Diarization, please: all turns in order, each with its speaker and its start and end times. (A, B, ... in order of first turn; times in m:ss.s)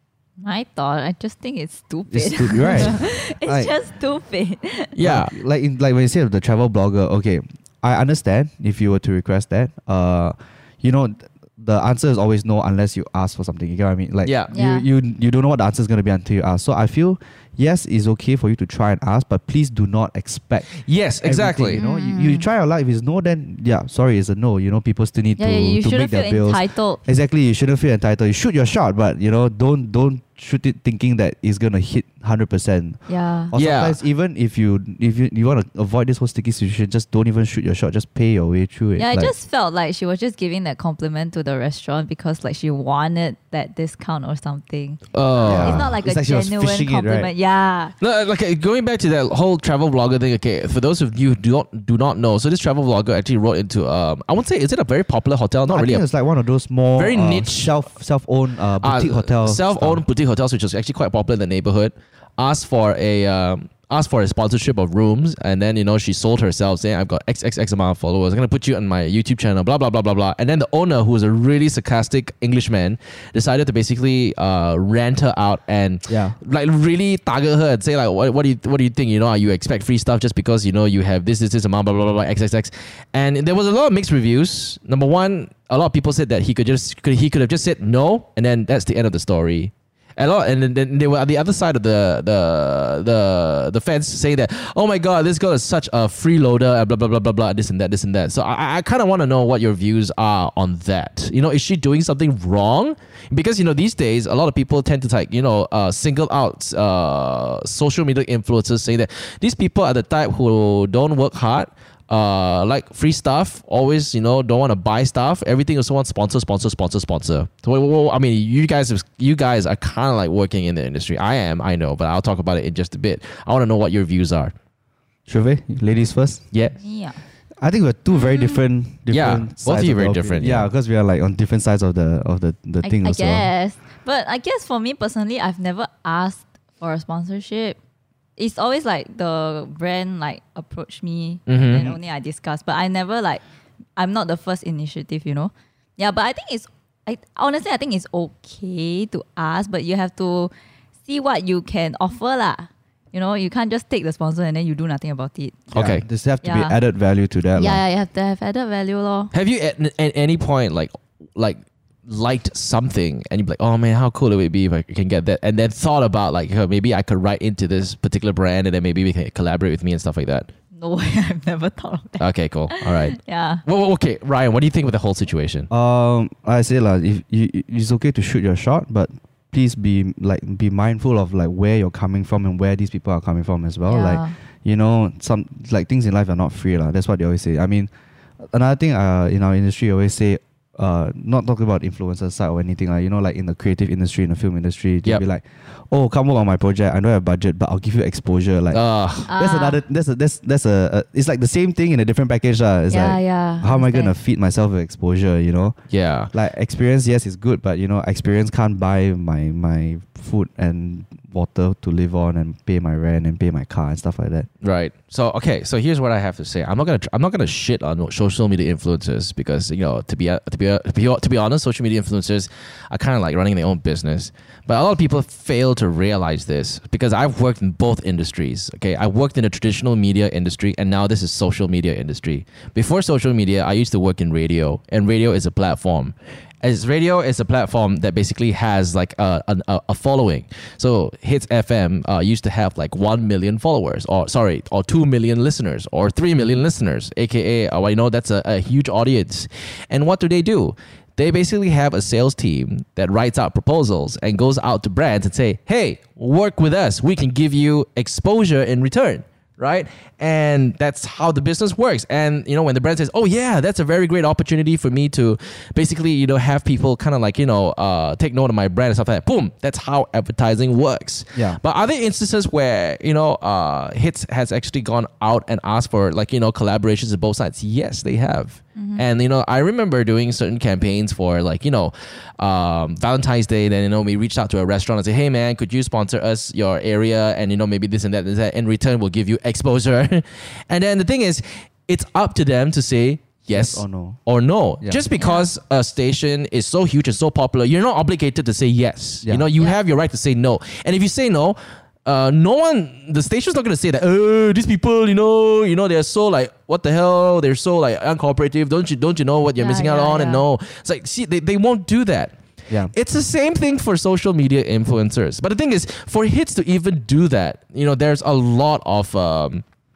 0:00.4-0:04.9 A
0:02.1-0:03.7 B
0:02.6-0:02.8 C
0:04.9-0:05.3 C
0:05.0-0:20.7 B
0:14.2-0:14.5 C
0:14.5-0:14.8 A
0:20.7-0:21.8 C
0:21.2-0:33.0 B
0:21.8-0:22.4 A
0:25.4-0:27.0 A
0:33.1-0:33.5 A
0:33.5-0:39.3 B
0:33.5-0:34.0 C
0:39.0-0:48.0 A
0:45.1-0:45.9 C
0:45.4-0:47.3 B
0:48.0-0:56.0 C
0:55.7-1:00.0 B
0:57.0-0:57.8 C
0:58.8-2:04.5 C
1:16.1-1:16.4 B
2:05.3-2:06.4 B
2:06.7-2:07.2 A
2:07.6-2:13.5 B
2:08.2-2:08.6 A
2:09.1-2:10.7 C
2:12.8-2:17.8 A
2:18.4-2:23.4 A
2:21.5-2:21.9 C
2:24.0-2:30.5 A
2:31.1-2:35.6 A
2:35.7-2:36.0 C
2:35.7-2:37.8 B
2:36.4-2:36.8 A
2:37.5-2:39.3 A
2:39.3-2:50.5 C
2:50.8-2:53.6 A
2:52.2-2:55.7 C
2:55.7-3:25.8 B
3:03.9-3:04.4 A
3:18.7-3:19.3 C
3:19.3-3:19.8 A
3:22.9-3:24.1 A
3:25.9-3:26.3 C
3:26.3-3:34.5 B
3:34.6-5:12.4 C
4:31.3-4:31.6 B
4:38.8-4:39.0 A
4:53.5-4:54.2 B
4:55.2-4:55.5 A
5:09.6-5:10.4 A
5:12.9-5:19.6 C